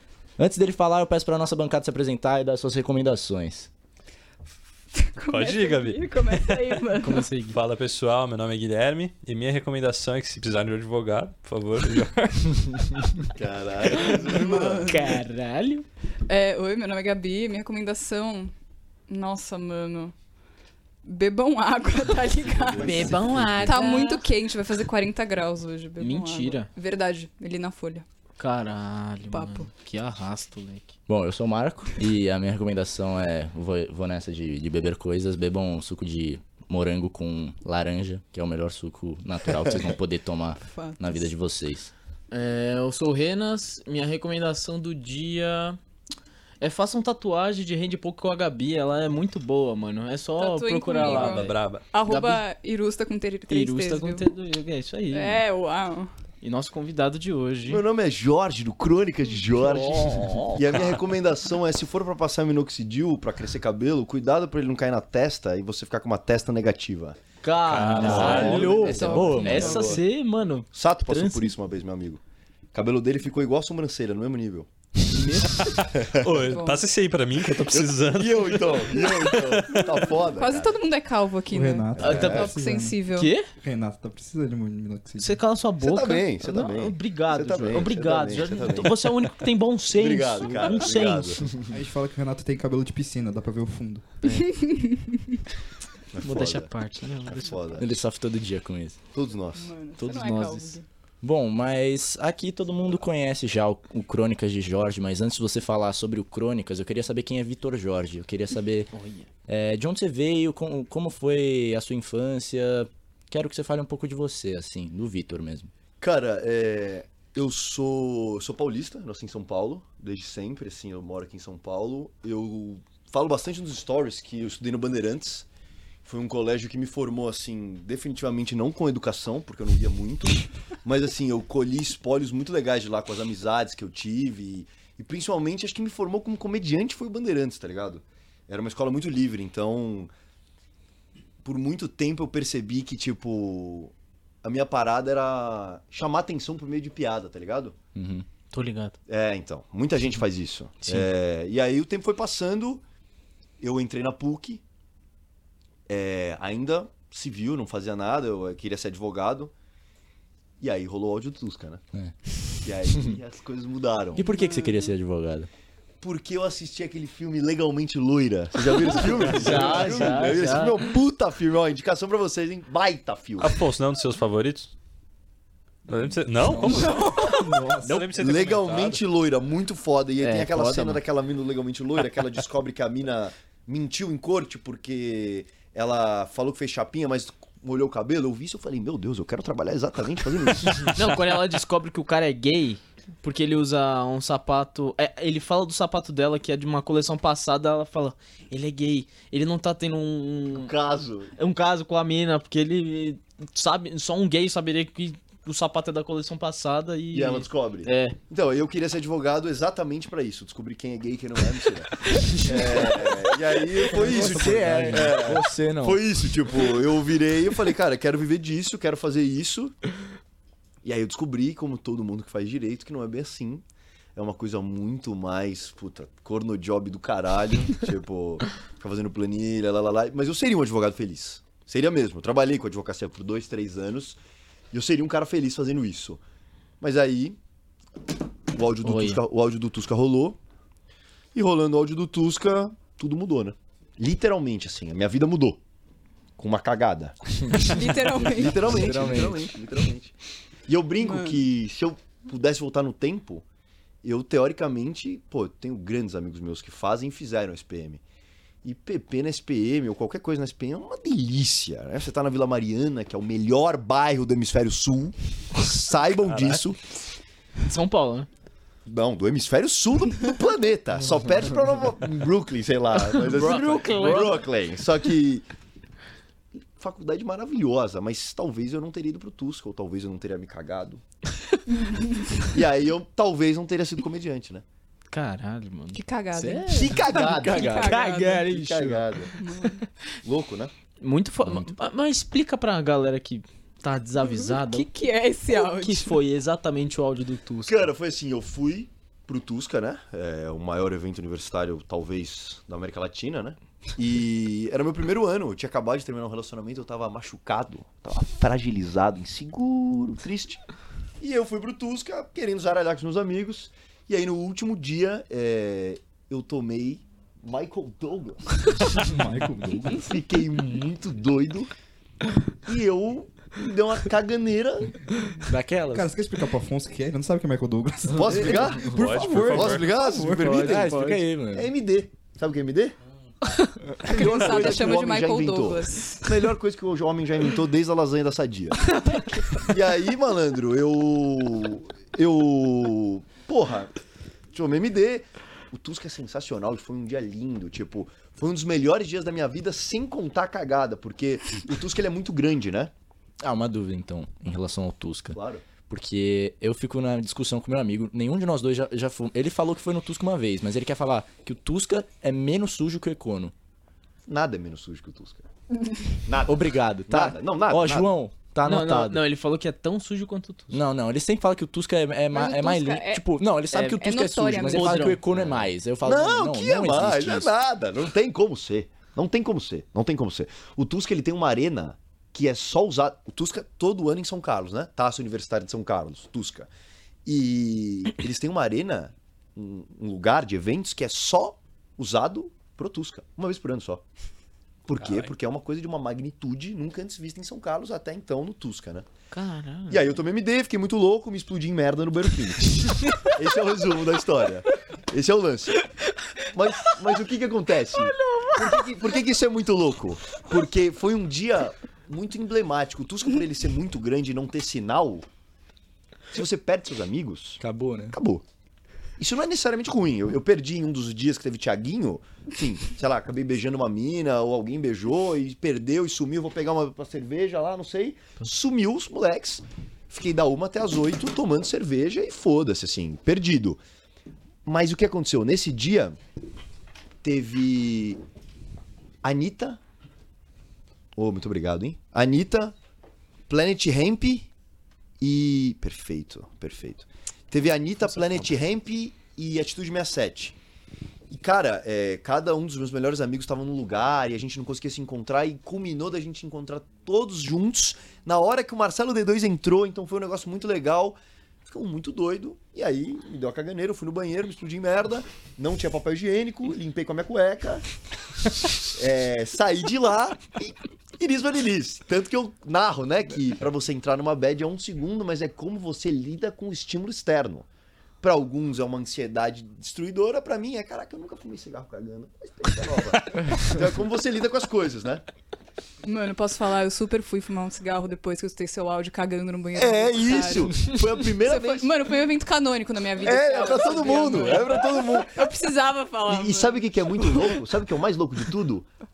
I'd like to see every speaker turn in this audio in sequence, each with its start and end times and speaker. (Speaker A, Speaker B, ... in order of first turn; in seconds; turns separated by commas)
Speaker A: 0.4-3.7, Speaker B: 5.0-7.3, Speaker C: 5.3-6.8, Speaker D: 7.0-7.6, Speaker C: 7.5-13.3, Speaker E: 13.3-14.9, Speaker B: 14.1-15.2, Speaker D: 14.9-15.9, Speaker B: 16.3-18.5, Speaker B: 19.1-20.1, Speaker B: 21.0-28.1, Speaker E: 22.4-23.8, Speaker D: 22.8-24.2, Speaker D: 26.0-26.7, Speaker D: 28.4-31.0, Speaker B: 29.3-29.7, Speaker A: 31.1-41.9, Speaker B: 40.6-41.3, Speaker D: 42.3-45.8, Speaker D: 46.6-51.5, Speaker B: 50.4-54.2, Speaker C: 50.9-51.9, Speaker D: 52.1-52.4, Speaker D: 53.5-55.4, Speaker B: 55.1-56.1, Speaker D: 56.4-57.8, Speaker E: 57.7-67.2, Speaker D: 59.6-60.6, Speaker D: 67.4-71.5, Speaker C: 67.7-69.0, Speaker A: 68.0-69.9, Speaker E: 68.0-70.0, Speaker B: 68.1-70.0, Speaker E: 70.7-72.2, Speaker E: 72.7-74.7, Speaker D: 75.1-75.7, Speaker C: 75.6-80.2, Speaker E: 75.7-76.5, Speaker B: 76.5-76.9, Speaker E: 77.5-80.8, Speaker B: 80.3-83.3, Speaker F: 81.5-83.0, Speaker E: 82.0-82.5, Speaker D: 82.0-82.4, Speaker D: 83.1-83.5, Speaker F: 83.6-85.4, Speaker D: 85.2-91.5, Speaker E: 85.8-89.1, Speaker E: 89.9-91.5, Speaker F: 91.7-94.0, Speaker D: 94.2-94.6, Speaker B: 94.4-95.2, Speaker E: 96.1-96.7, Speaker D: 96.2-97.6, Speaker E: 97.2-97.9, Speaker A: 97.8-99.0, Speaker E: 99.1-99.7, Speaker B: 99.5-100.8, Speaker D: 100.0-100.8, Speaker A: 101.2-108.9, Speaker D: 108.9-109.3, Speaker A: 109.5-115.7, Speaker E: 116.0-125.5, Speaker E: 126.0-140.1, Speaker E: 141.4-147.8, Speaker A: 147.9-148.3, Speaker D: 148.5-149.0, Speaker E: 149.1-152.8, Speaker E: 153.6-154.6, Speaker E: 155.9-159.5, Speaker E: 160.6-161.8, Speaker A: 161.9-163.2, Speaker E: 162.6-164.3, Speaker A: 164.2-165.5, Speaker B: 164.2-164.9, Speaker E: 166.0-173.6, Speaker D: 169.0-170.8, Speaker A: 169.5-169.9, Speaker C: 173.4-174.7, Speaker C: 175.9-177.3, Speaker F: 176.4-178.2, Speaker C: 177.8-179.0, Speaker E: 178.1-190.9, Speaker D: 180.2-181.0, Speaker D: 190.9-200.7, Speaker E: 200.5-201.3, Speaker D: 201.4-208.2, Speaker E: 207.1-219.8, Speaker D: 212.1-212.9, Speaker F: 213.9-215.2, Speaker A: 213.9-216.0, Speaker E: 220.8-223.6, Speaker E: 224.2-234.2, Speaker E: 234.7-236.2, Speaker E: 236.8-237.4, Speaker E: 238.5-240.4, Speaker D: 238.8-239.2, Speaker E: 241.3-245.6, Speaker E: 246.4-250.2, Speaker A: 247.6-249.5, Speaker B: 247.6-248.8, Speaker E: 250.7-253.4, Speaker B: 251.0-251.4, Speaker E: 254.0-258.0, Speaker E: 258.6-266.8, Speaker D: 267.6-268.3, Speaker E: 268.9-275.5, Speaker D: 273.1-274.4, Speaker E: 276.8-281.0, Speaker B: 281.8-282.1, Speaker E: 282.5-284.6, Speaker D: 285.1-286.0, Speaker B: 285.9-288.5, Speaker A: 286.3-288.1, Speaker E: 286.7-287.9, Speaker D: 286.9-289.3, Speaker E: 288.4-289.3, Speaker B: 289.4-289.9, Speaker E: 290.2-290.7, Speaker D: 291.0-294.9, Speaker B: 294.2-296.1, Speaker D: 295.5-297.9, Speaker E: 297.7-310.6, Speaker E: 311.2-318.8, Speaker F: 318.9-320.1, Speaker E: 320.0-321.7, Speaker E: 322.6-325.0, Speaker A: 325.4-326.1, Speaker F: 325.9-330.5, Speaker E: 328.1-333.0, Speaker C: 328.8-330.0, Speaker D: 330.3-331.2, Speaker A: 330.4-331.7, Speaker B: 333.5-336.4, Speaker E: 334.0-338.9, Speaker E: 339.7-343.9, Speaker E: 344.5-352.9, Speaker A: 353.4-363.5, Speaker E: 355.3-355.6, Speaker E: 364.3-365.4, Speaker E: 366.2-368.1, Speaker A: 366.5-369.2, Speaker D: 368.6-370.8, Speaker A: 370.7-377.5, Speaker B: 372.3-373.3, Speaker D: 373.7-374.0, Speaker B: 373.8-375.1, Speaker D: 374.6-375.2, Speaker E: 375.3-386.7, Speaker E: 387.3-394.1, Speaker E: 394.9-399.1, Speaker D: 399.3-400.2, Speaker E: 399.9-405.9, Speaker E: 406.5-415.3, Speaker D: 408.0-408.9, Speaker E: 416.3-417.6, Speaker A: 417.6-418.2, Speaker E: 418.1-418.4, Speaker E: 419.2-433.8, Speaker E: 434.6-436.2, Speaker E: 437.2-438.2, Speaker E: 439.2-439.8, Speaker E: 441.1-442.8, Speaker E: 443.5-444.5, Speaker E: 445.2-450.6, Speaker E: 451.3-461.2, Speaker E: 461.7-467.9, Speaker E: 468.8-477.7, Speaker E: 478.2-485.2, Speaker B: 486.0-496.9, Speaker E: 489.7-491.9, Speaker E: 493.2-495.5, Speaker E: 496.3-498.9